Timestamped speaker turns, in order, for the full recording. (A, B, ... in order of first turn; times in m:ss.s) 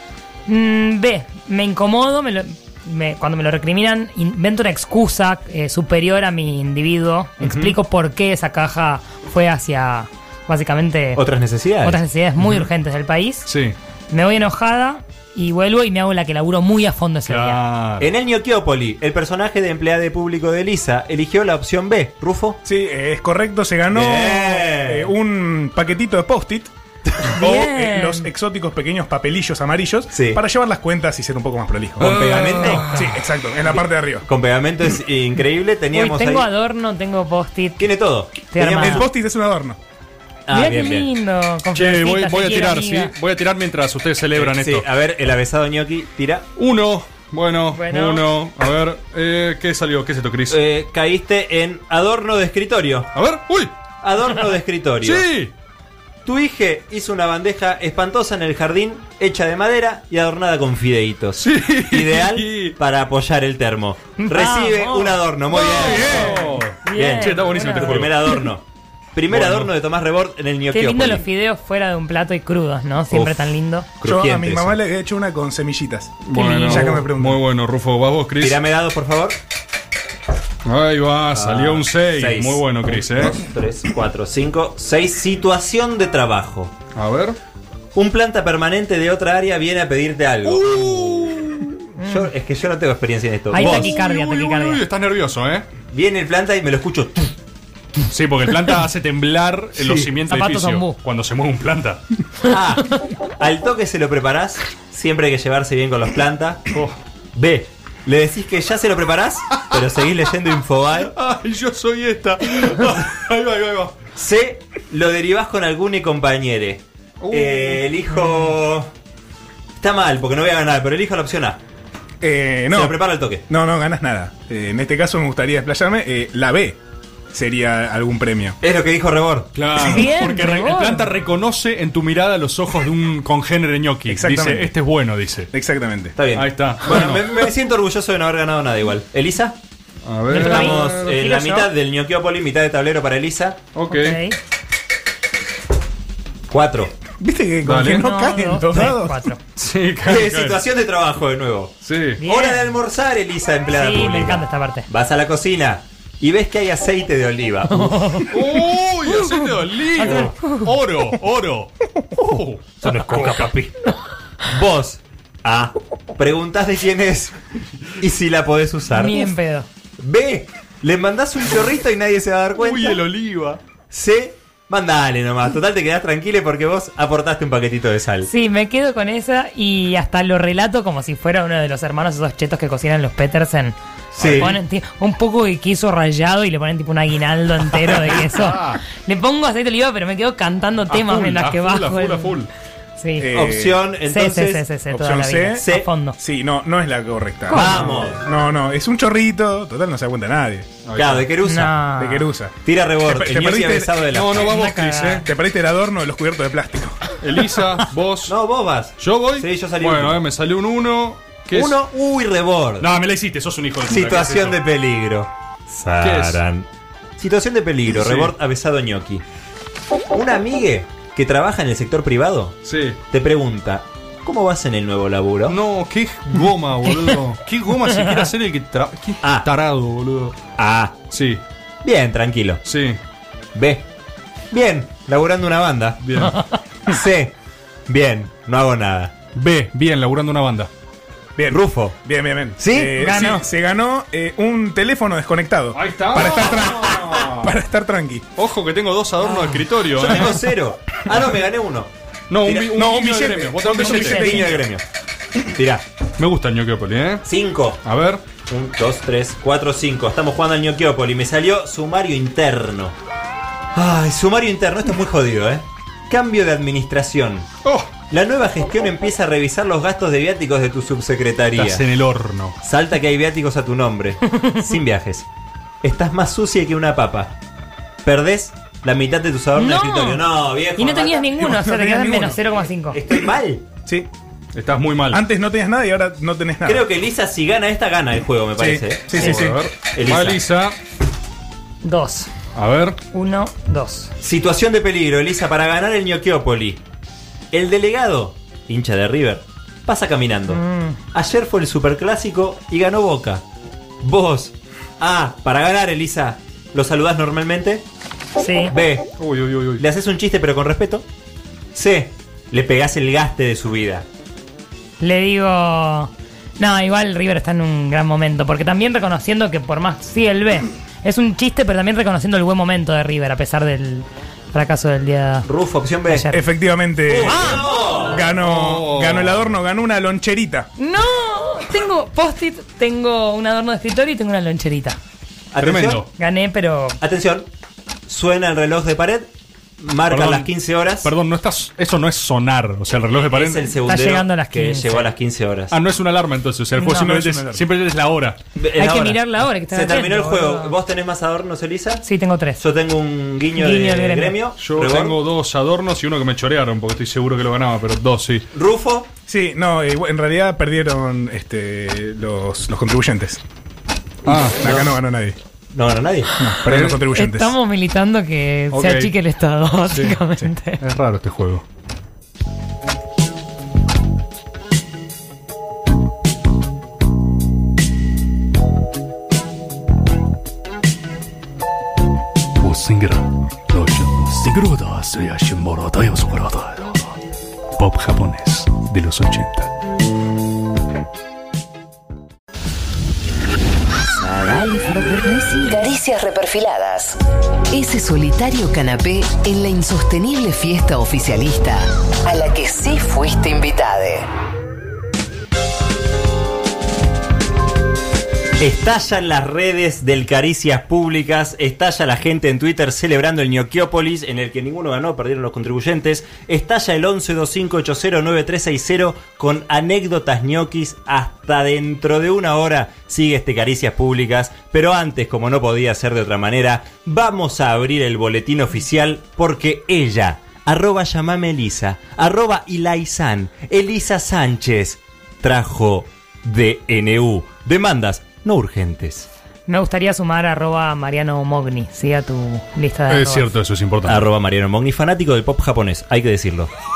0:00.5-0:11.2 A
0:07.4-0:07.8 B
0:11.2-0:12.0 C
0:11.8-0:13.5 A
0:12.4-0:12.7 B
0:13.5-0:13.8 B
0:14.1-0:17.6 A
0:17.3-0:18.1 B
0:18.0-0:22.6 C
0:22.6-0:26.7 D
0:23.9-0:25.1 C
0:27.2-0:32.2 D
0:27.4-0:28.3 A
0:30.1-0:30.4 C
0:32.0-0:33.0 C
0:32.0-0:32.9 B
0:32.5-0:33.1 A
0:32.9-0:34.3 D
0:33.7-0:36.5 C
0:35.9-0:37.8 A
0:37.8-0:39.1 C
0:38.4-0:39.1 A
0:38.8-0:39.8 D
0:40.5-0:41.1 C
0:40.5-0:43.1 A
0:41.7-0:44.9 B
0:44.3-0:46.5 C
0:46.6-0:50.6 B
0:47.7-0:48.2 A
0:50.5-0:53.1 C
0:53.1-0:53.7 B
0:54.0-0:55.3 C
0:55.0-0:55.5 B
0:56.2-1:06.4 C
1:01.4-1:02.8 B
1:04.2-1:08.4 A
1:05.5-1:08.4 B
1:06.9-1:11.2 C
1:09.3-1:09.7 B
1:10.7-1:13.9 A
1:14.0-1:14.8 C
1:14.0-1:17.4 D
1:16.3-1:18.6 B
1:16.3-1:17.0 A
1:18.4-1:19.4 C
1:20.6-1:23.4 B
1:21.3-1:26.7 C
1:27.0-1:27.4 B
1:28.0-1:33.9 C
1:30.4-1:31.7 B
1:32.0-1:32.3 A
1:33.5-1:34.8 A
1:33.6-1:35.7 B
1:35.9-1:37.3 C
1:38.1-1:42.0 B
1:39.8-1:40.1 C
1:40.3-1:41.0 A
1:42.5-1:42.9 C
1:43.4-1:46.6 C
1:47.4-1:51.1 C
1:51.1-1:54.0 B
1:54.2-1:58.9 C
1:57.2-1:57.9 B
1:59.8-2:01.6 C
2:02.2-2:03.0 D
2:02.7-2:03.4 C
2:03.5-2:06.8 D
2:07.3-2:08.6 D
2:08.6-2:09.5 C
2:09.6-2:15.5 B
2:09.8-2:11.1 A
2:14.1-2:14.7 D
2:15.5-2:16.2 D
2:16.2-2:19.6 C
2:16.4-2:17.3 B
2:20.1-2:21.1 B
2:20.3-2:21.7 A
2:20.3-2:23.6 C
2:23.7-2:24.2 B
2:23.9-2:24.4 A
2:26.5-2:27.0 C
2:27.2-2:29.3 D
2:27.6-2:28.0 B
2:27.9-2:29.4 A
2:29.6-2:30.6 B
2:30.0-2:38.2 C
2:31.8-2:32.2 B
2:32.2-2:32.6 A
2:33.7-2:34.9 A
2:37.7-2:38.4 A
2:38.3-2:43.3 B
2:39.3-2:40.7 A
2:40.0-2:40.3 C
2:42.8-2:43.8 C
2:44.5-2:47.4 C
2:48.0-2:49.3 C
2:48.9-2:49.7 A
2:50.0-2:53.0 C
2:52.6-2:53.6 B
2:53.9-2:58.3 C
2:58.3-3:12.4 A
3:04.1-3:04.6 B
3:04.2-3:04.5 C
3:07.8-3:08.8 B
3:10.9-3:12.5 B
3:13.0-3:13.4 A
3:13.2-3:13.8 D
3:13.3-3:14.7 C
3:14.1-3:16.2 A
3:14.9-3:15.6 D
3:15.5-3:15.9 C
3:16.2-3:20.8 D
3:17.5-3:17.9 A
3:17.5-3:18.2 C
3:20.8-3:21.3 B
3:21.0-3:21.7 C
3:21.4-3:22.3 A
3:22.0-3:22.6 D
3:22.6-3:24.5 C
3:23.1-3:23.9 D
3:24.1-3:25.3 B
3:24.4-3:25.3 A
3:25.2-3:27.0 D
3:27.2-3:28.4 B
3:28.3-3:30.2 C
3:29.0-3:31.8 B
3:31.5-3:32.9 C
3:32.8-3:34.6 B
3:33.9-3:36.7 C
3:36.0-3:36.4 B
3:37.2-3:39.2 C
3:37.9-3:38.3 B
3:40.1-3:42.6 C
3:42.6-3:43.0 B
3:43.1-3:45.6 C
3:45.5-3:50.4 B
3:50.6-3:51.0 C
3:51.1-3:51.4 B
3:51.8-3:52.6 C
3:52.6-3:53.0 B
3:53.6-3:53.9 C
3:54.5-3:56.0 C
3:56.0-3:56.4 B
3:56.9-3:57.3 C
3:57.9-3:59.1 C
3:59.4-4:00.7 B
4:01.4-4:08.2 D
4:01.5-4:02.0 C
4:02.6-4:03.1 C
4:03.0-4:03.4 A
4:05.7-4:07.5 B
4:08.4-4:10.4 B
4:09.2-4:09.6 A
4:09.9-4:11.9 C
4:12.3-4:14.5 B
4:12.4-4:12.7 C
4:12.7-4:14.5 D
4:13.8-4:14.6 A
4:14.0-4:14.8 C
4:15.5-4:15.8 C
4:16.2-4:17.3 B
4:17.2-4:17.8 C
4:17.8-4:18.2 B
4:18.4-4:23.0 C
4:23.7-4:27.5 C
4:27.6-4:27.9 B
4:28.1-4:31.8 C
4:31.6-4:32.6 B
4:32.6-4:35.3 C
4:34.3-4:34.7 A
4:35.8-4:37.3 C
4:38.0-4:41.3 C
4:39.6-4:43.0 A
4:41.4-4:42.4 D
4:42.9-4:43.7 C
4:44.6-4:45.2 B
4:45.1-4:46.9 D
4:46.6-4:50.4 C
4:48.6-4:49.6 D
4:48.6-4:50.8 B
4:51.8-4:52.3 A
4:52.6-4:53.0 B
4:53.1-4:54.1 A
4:54.2-4:56.8 C
4:57.5-5:00.6 C
5:00.5-5:01.0 A
5:01.1-5:03.4 C
5:04.0-5:07.8 C
5:08.4-5:08.8 A
5:08.7-5:09.1 C
5:09.2-5:09.8 B
5:09.8-5:11.1 C
5:11.7-5:14.1 C
5:15.0-5:25.5 A
5:25.4-5:26.3 C
5:26.1-5:26.4 A
5:26.3-5:30.7 D
5:27.1-5:28.2 C
5:27.3-5:29.5 B
5:30.8-5:35.0 A
5:35.5-5:36.0 C
5:35.6-5:36.1 B
5:36.2-5:37.0 A
5:37.0-5:37.5 C
5:38.1-5:41.1 C
5:40.1-5:43.7 B
5:43.2-5:45.8 C
5:43.8-5:45.1 A
5:45.7-5:48.4 B
5:46.8-5:47.2 A
5:46.9-5:47.6 D
5:48.6-5:52.0 C
5:48.8-5:50.8 A
5:52.0-5:52.6 A
5:52.6-5:55.2 C
5:53.6-5:54.4 A
5:54.6-5:58.5 B
5:58.5-5:59.1 C
5:59.3-6:03.4 D
6:04.2-6:04.6 B
6:04.6-6:05.4 D
6:04.6-6:05.0 C
6:05.7-6:06.3 C
6:06.4-6:07.5 D
6:06.7-6:07.0 B
6:07.1-6:10.8 A
6:08.7-6:09.1 B
6:09.9-6:10.2 B
6:10.8-6:11.6 B
6:22.6-6:27.1 B
6:27.8-6:29.7 B
6:34.0-6:44.3 E
6:48.6-7:19.3 C
7:19.7-7:23.5 A
7:23.1-7:24.3 B
7:24.0-7:26.7 C